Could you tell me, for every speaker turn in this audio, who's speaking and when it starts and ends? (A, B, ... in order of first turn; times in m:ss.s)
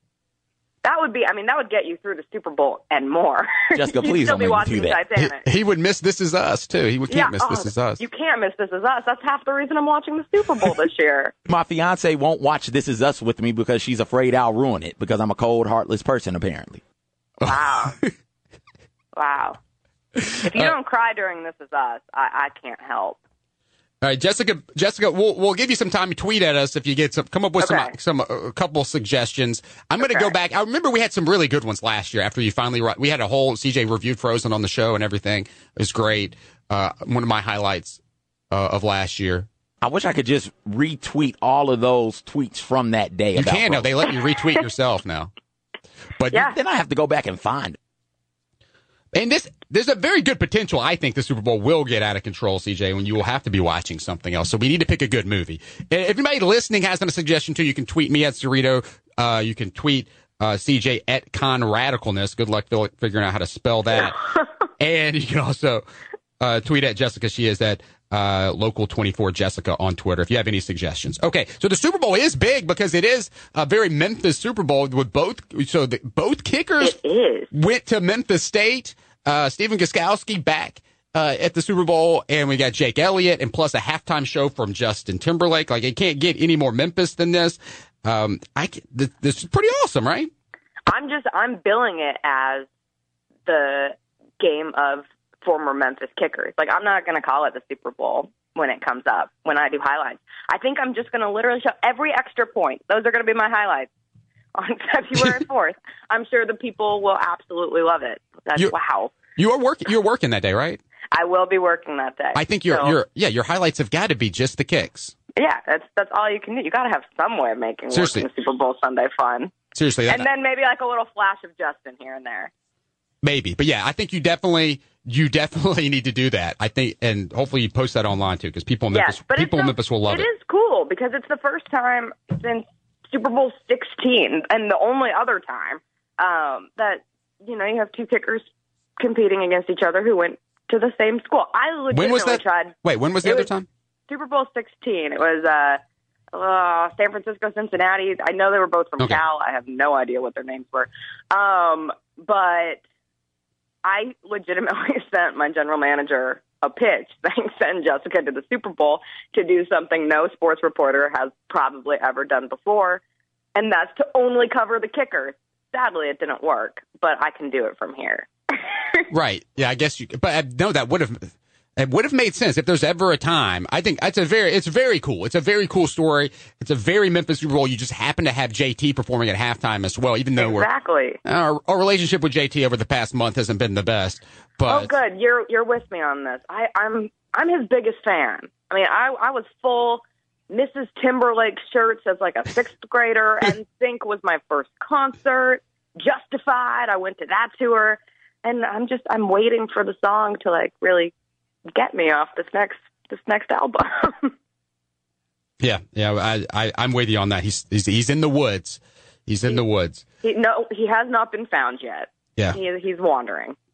0:00.8-0:05.4 A
0:03.8-0:05.0 B
0:05.2-0:08.0 C
0:07.1-0:11.3 A
0:11.5-0:16.8 B
0:17.4-0:18.1 C
0:17.4-0:18.0 A
0:19.2-0:19.6 A
0:20.3-0:20.7 C
0:20.4-0:23.2 A
0:24.0-0:38.0 C
0:27.6-0:27.9 A
0:30.0-0:30.3 A
0:38.5-0:39.5 C
0:39.8-0:43.9 B
0:43.4-0:45.3 C
0:46.2-0:46.5 C
0:46.3-0:47.8 B
0:49.1-1:04.3 C
1:04.8-1:05.8 C
1:06.4-1:17.0 C
1:16.8-1:17.5 A
1:17.5-1:30.3 C
1:30.9-1:32.7 A
1:33.5-1:43.9 A
1:44.6-1:49.1 A
1:49.4-1:50.8 C
1:51.1-1:53.0 A
1:52.4-1:55.1 C
1:55.4-1:59.5 A
1:57.9-1:58.3 C
1:59.8-2:00.3 C
2:00.1-2:02.5 A
2:03.2-2:10.3 C
2:08.9-2:18.4 A
2:19.0-2:23.5 A
2:21.9-2:23.7 C
2:24.1-2:25.8 A
2:26.3-2:32.8 A
2:33.8-2:43.0 A
2:43.6-2:49.0 A
2:49.1-3:00.7 C
3:00.4-3:01.2 A
3:01.2-3:04.9 C
3:04.7-3:21.1 A
3:21.7-3:24.3 A
3:25.6-3:30.0 C
3:30.2-3:33.6 A